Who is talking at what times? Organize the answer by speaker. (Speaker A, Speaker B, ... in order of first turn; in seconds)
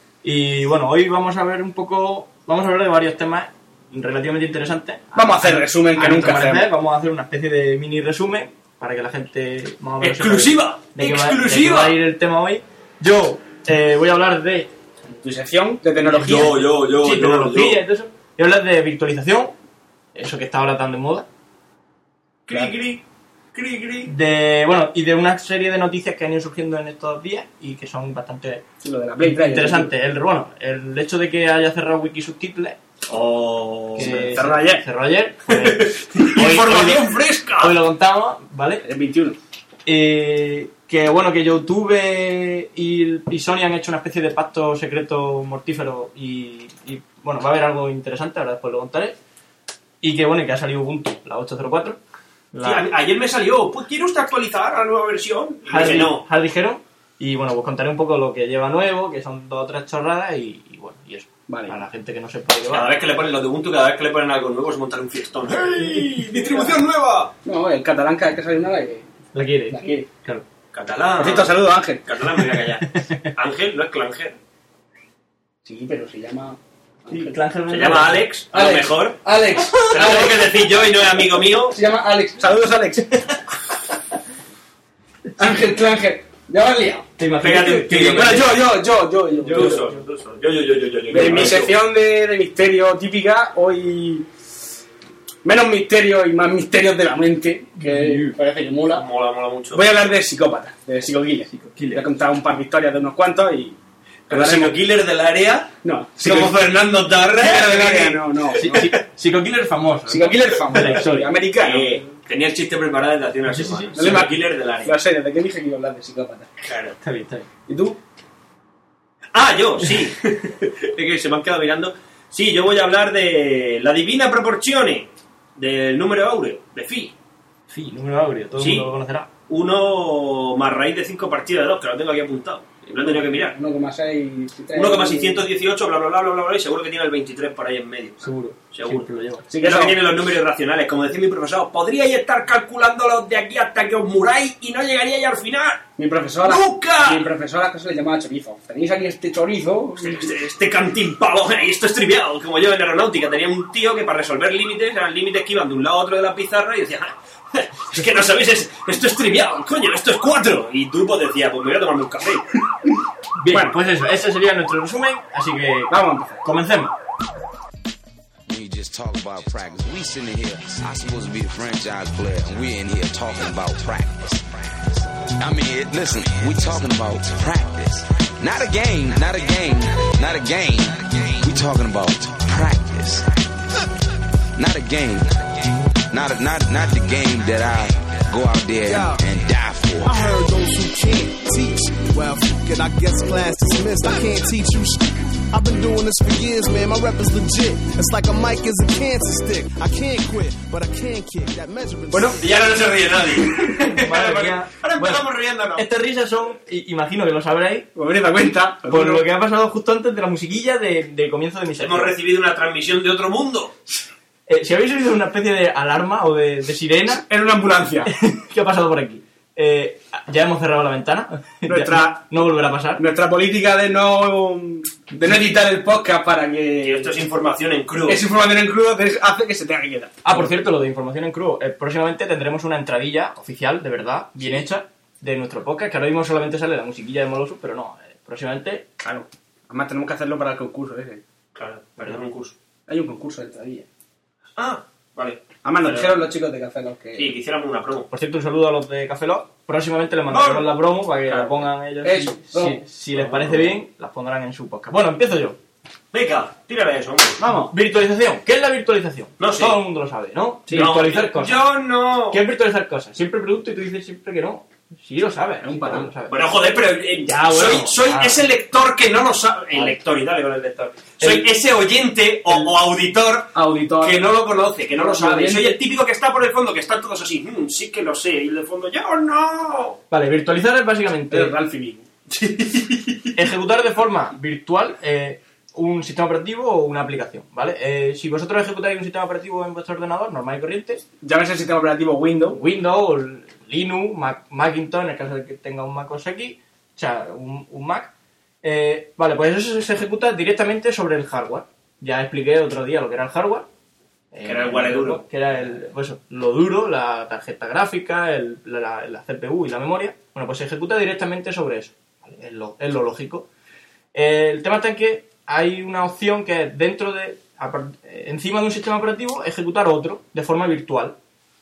Speaker A: 0.2-14.7, 16.0-19.5, 20.1-21.3, 24.1-28.6, 29.2-32.8, 34.0-38.8, 39.9-49.1, 50.0-52.0, 52.5-52.9, 55.6-62.9, 69.3-70.4, 72.9-73.3, 77.1-78.3, 87.2-88.6, 89.4-89.8, 91.1-91.7, 97.8-98.4, 101.5-102.0, 108.5-111.3, 113.5-114.3, 117.0-117.5, 127.7-129.3, 138.2-139.4, 163.4-166.9, 203.8-207.9, 208.9-212.1, 214.5-217.2, 218.1-223.0, 230.2-238.8, 248.1-255.6, 257.7-261.7, 262.3-266.5, 267.2-268.4, 271.2-271.5, 280.1-281.5, 283.3-291.0, 292.5-298.1, 298.6-303.7, 304.3-313.5, 314.1-321.1
Speaker B: 5.1-6.7, 15.1-16.5, 28.8-29.9, 34.0-34.9, 38.8-39.4, 61.5-61.8, 66.2-66.8, 67.4-69.1, 69.7-70.0, 71.2-72.0, 75.6-77.4, 78.5-83.2, 85.4-89.9, 91.1-94.3, 95.4-99.0, 99.7-103.8, 104.3-104.8, 105.8-106.6, 107.3-108.9, 110.1-112.1, 114.0-116.5, 117.7-118.0, 132.9-135.5, 139.5-140.0, 146.0-150.3, 165.9-166.4, 202.1-202.7, 207.9-209.2, 217.2-218.1, 221.7-222.2, 223.0-227.1, 228.0-230.5, 239.0-241.2, 242.9-243.8, 245.6-247.3, 251.3-253.2, 257.4-257.7, 265.6-266.1, 273.5-274.2, 275.0-275.8, 281.3-282.1, 291.2-292.6
Speaker C: 10.0-12.0, 16.1-17.8, 22.5-23.0, 23.5-24.1, 33.1-34.4, 35.5-37.8, 52.6-56.2, 62.7-67.3, 70.7-74.4, 77.7-79.2, 79.8-81.8, 87.4-88.6, 89.5-91.8, 98.9-99.8, 104.3-108.9, 111.6-115.0, 116.6-117.0, 119.3-127.1, 128.6-128.9, 129.5-133.6, 134.7-145.8, 146.4-147.3, 150.0-162.5, 202.4-205.8, 211.8-213.7, 226.8-228.2, 241.5-242.5, 244.6-246.2, 247.2-248.1, 250.3-250.7, 256.1-257.4, 259.4-259.8, 260.7-262.4, 266.3-280.0, 282.3-283.3, 304.4-305.2
Speaker D: 168.5-183.8, 184.6-190.4
Speaker E: 188.8-189.2, 190.0-202.5